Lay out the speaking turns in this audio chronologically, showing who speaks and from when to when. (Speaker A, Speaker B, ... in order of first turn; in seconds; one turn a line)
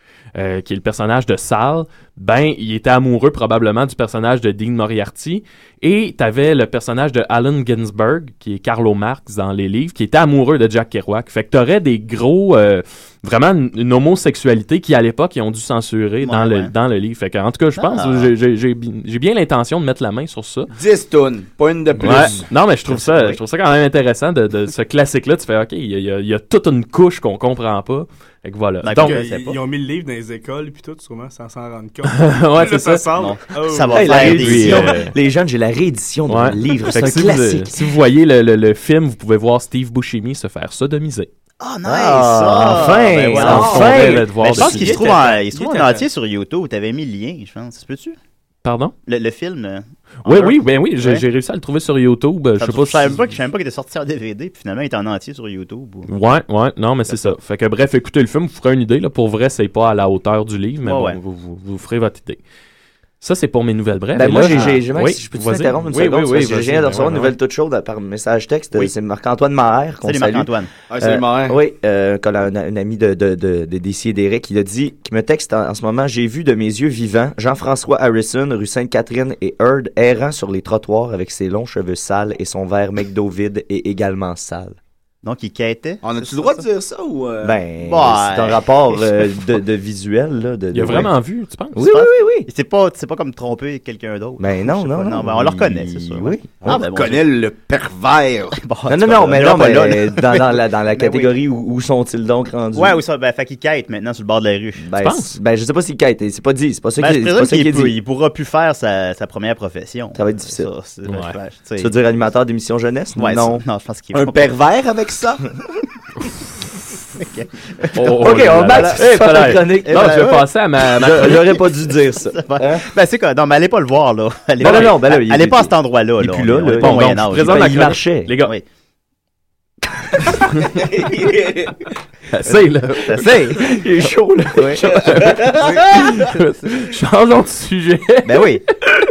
Speaker A: 0.3-20.7
Speaker B: 16.2-16.7
Speaker B: 17.8-18.3
Speaker C: 20.7-22.4
Speaker A: 22.0-29.3
Speaker B: 22.9-23.4
Speaker B: 28.8-29.6
Speaker D: 29.0-34.3
Speaker A: 32.0-33.0
Speaker B: 33.1-34.9
Speaker E: 33.9-37.9
Speaker A: 34.1-35.1
Speaker A: 36.3-41.3
Speaker B: 41.6-48.2
Speaker E: 41.8-45.0
Speaker A: 43.3-45.4
Speaker D: 45.5-46.0
Speaker A: 48.6-48.9
Speaker B: 49.1-51.2
Speaker A: 50.2-53.3
Speaker B: 52.6-56.1
Speaker A: 56.1-62.4
Speaker B: 60.8-61.2
Speaker A: 63.2-67.3
Speaker E: 64.1-84.8
Speaker B: 70.0-70.7
Speaker C: 70.9-71.6
Speaker B: 85.2-86.7
Speaker C: 86.0-87.6
Speaker E: 87.4-91.1
Speaker B: 87.8-89.0
Speaker A: 90.7-91.9
Speaker E: 91.7-92.5
Speaker B: 91.8-97.3
Speaker E: 94.4-96.8
Speaker C: 96.6-98.6
Speaker B: 98.5-101.3
Speaker E: 98.9-103.0
Speaker B: 102.7-104.9
Speaker E: 104.8-108.0
Speaker A: 105.0-105.3
Speaker B: 107.0-112.0
Speaker E: 110.1-110.7
Speaker A: 111.0-111.3
Speaker E: 111.8-113.6
Speaker B: 113.2-114.5
Speaker C: 114.1-115.4
Speaker B: 117.2-117.9
Speaker A: 117.9-121.6
Speaker E: 118.0-122.8
Speaker B: 118.5-120.4
Speaker B: 122.3-128.6
Speaker E: 124.6-128.3
Speaker A: 124.6-124.9
Speaker A: 126.7-128.5
Speaker A: 130.4-130.8
Speaker C: 130.8-131.7
Speaker A: 132.3-138.5
Speaker B: 133.0-133.6
Speaker E: 133.1-135.2
Speaker B: 138.2-138.6